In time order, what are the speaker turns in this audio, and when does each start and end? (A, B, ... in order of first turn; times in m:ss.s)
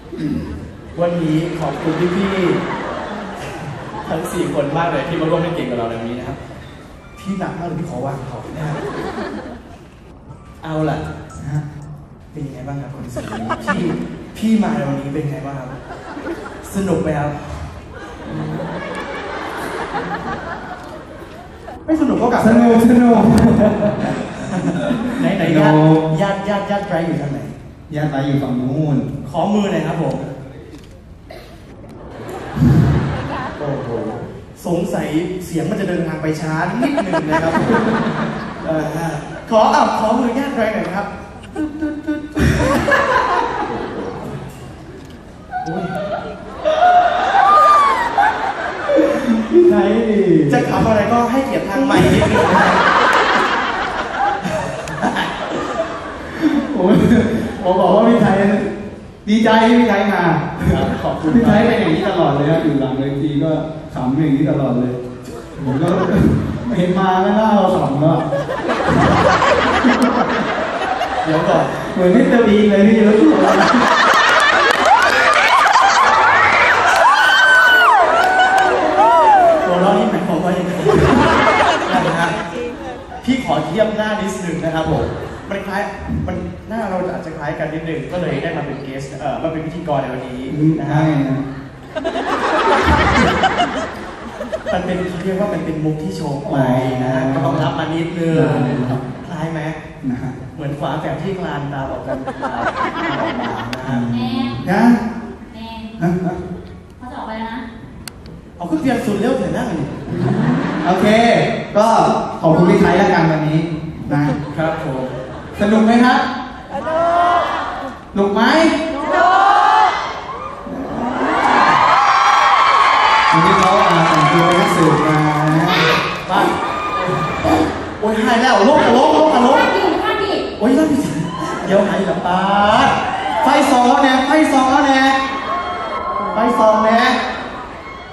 0:01.0-0:02.6 A
0:03.5-0:06.4 A
0:07.2-0:08.8 A
0:10.6-0:11.0 A
0:11.4-0:11.6 B
0:12.3-0:15.8 A
0:16.6-0:17.7 A
0:21.9-0:27.6 A
0:22.4-0:26.1 B
0:27.9-0:29.1 B
0:29.2-0:30.3 A
0:33.6-0:38.0 A
0:38.6-0:42.8 A
0:43.7-0:44.3 A
0:45.6-0:45.9 A
0:48.9-0:50.8 B
0:50.5-0:52.8 A
0:51.9-0:52.4 B
0:54.6-0:55.5 A
0:56.2-0:58.7 B
0:59.2-1:05.0 B
1:00.6-1:01.7 A
1:05.6-1:08.3 B
1:09.8-1:10.2 B
1:11.2-1:11.7 A
1:11.7-1:13.9 B
1:19.6-1:22.4 A
1:23.2-1:31.1 A
1:30.5-1:31.4 B
1:34.7-1:39.8 A
1:36.5-1:37.7 B
1:38.3-1:39.0 B
1:40.0-1:40.4 B
1:40.5-1:44.1 A
1:43.8-1:45.0 B
1:44.1-1:44.6 C
1:45.5-1:45.9 C
1:46.0-1:46.4 B
1:47.0-1:47.7 C
1:48.6-1:50.4 A
1:50.1-1:54.4 B
1:54.5-1:55.2 A
1:55.6-1:56.2 B
1:58.1-1:58.8 B
2:00.7-2:01.6 B
2:03.3-2:05.9 B
2:06.2-2:06.5 A
2:08.0-2:09.8 A
2:09.7-2:10.4 C
2:10.6-2:15.2 A
2:16.3-2:17.2 A